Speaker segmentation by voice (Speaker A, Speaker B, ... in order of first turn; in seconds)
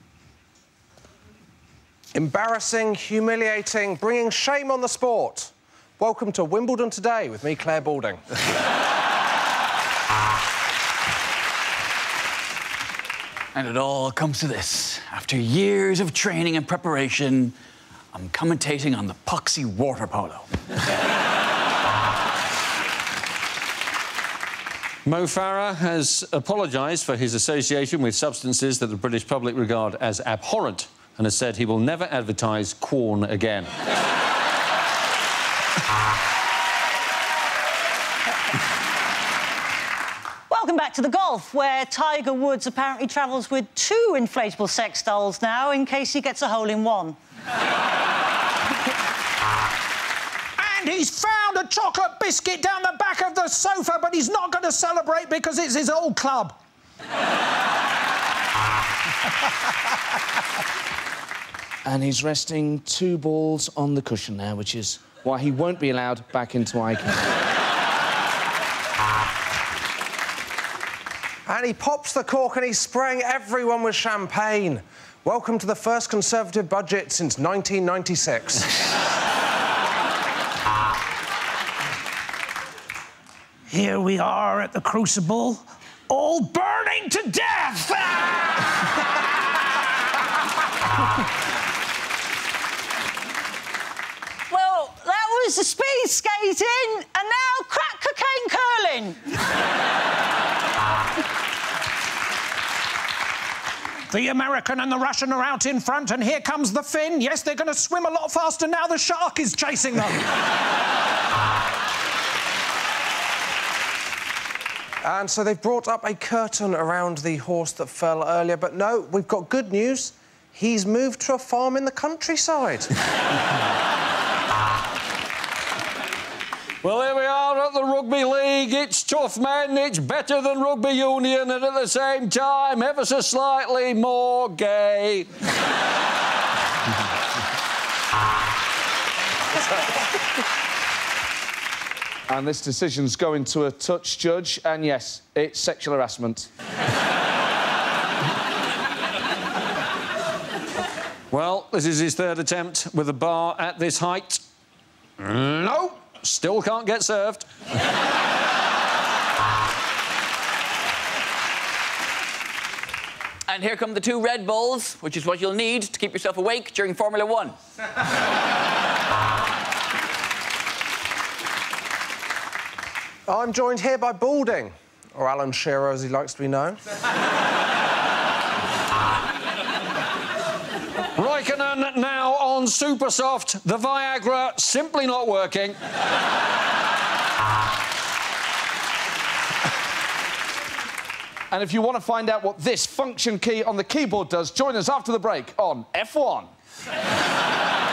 Speaker A: 2.1-8.2, 71.5-78.6, 115.0-122.9, 173.3-176.8
Speaker B: 13.5-17.6, 18.1-20.5, 163.5-167.6
Speaker C: 25.1-33.7, 126.8-135.3, 151.3-154.4, 155.2-157.4, 181.2-185.8
Speaker D: 40.5-47.2, 94.5-99.2
Speaker E: 50.6-56.5, 83.7-88.4, 104.1-110.2
Speaker F: 61.9-67.3, 142.3-146.5, 191.5-196.5